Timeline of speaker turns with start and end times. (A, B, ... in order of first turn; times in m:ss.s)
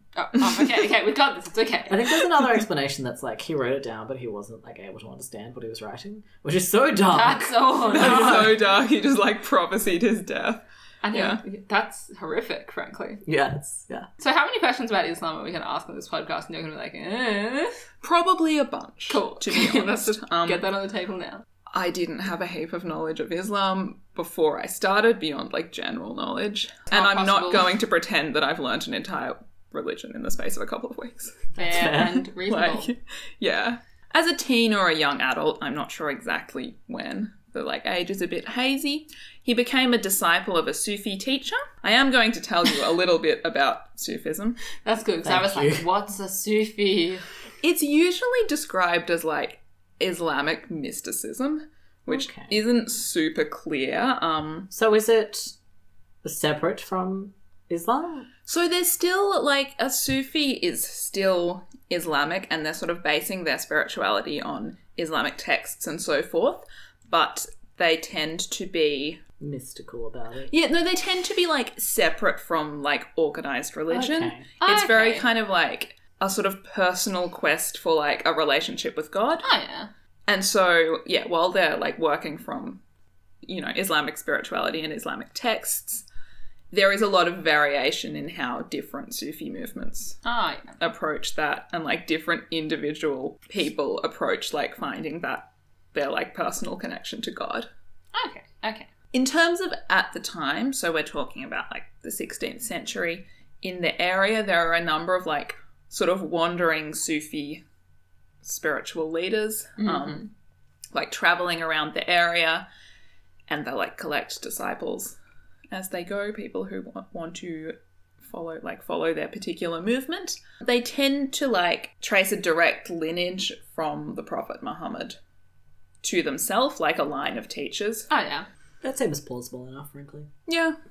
0:00.2-0:02.2 A
0:01.9-0:08.6 B
0:07.1-0:08.6 A
0:07.9-0:11.4 C
0:11.0-0:13.2 A
0:13.2-0:14.1 B
0:14.2-0:17.8 A
0:18.0-0:20.6 C
0:19.1-0:21.4 A
0:21.7-0:31.5 C
0:26.9-0:27.7 A
0:31.6-0:32.2 B
0:31.6-0:32.9 A
0:32.4-0:44.6 C
0:44.8-0:47.3 A
0:45.2-0:45.8 B
0:47.6-0:54.7 C
0:52.1-0:52.6 B
0:54.7-0:55.6 B
0:56.2-0:58.3 B
0:58.5-1:09.2 C
1:09.4-1:10.5 B
1:10.5-1:19.5 C
1:13.9-1:14.5 B
1:14.6-1:15.3 A
1:19.4-1:19.9 A
1:20.3-1:22.8 C
1:23.4-1:26.0 C
1:26.7-1:30.2 C
1:30.2-1:30.8 A
1:30.8-1:37.7 C
1:38.1-1:38.9 A
1:39.1-1:47.6 C
1:48.4-1:50.3 C
1:49.8-1:50.2 A
1:50.9-1:52.7 C
1:53.5-1:55.2 C
1:55.7-2:05.2 C
2:06.0-2:08.1 C
2:08.1-2:08.5 A
2:08.8-2:10.3 B
2:10.5-2:10.8 C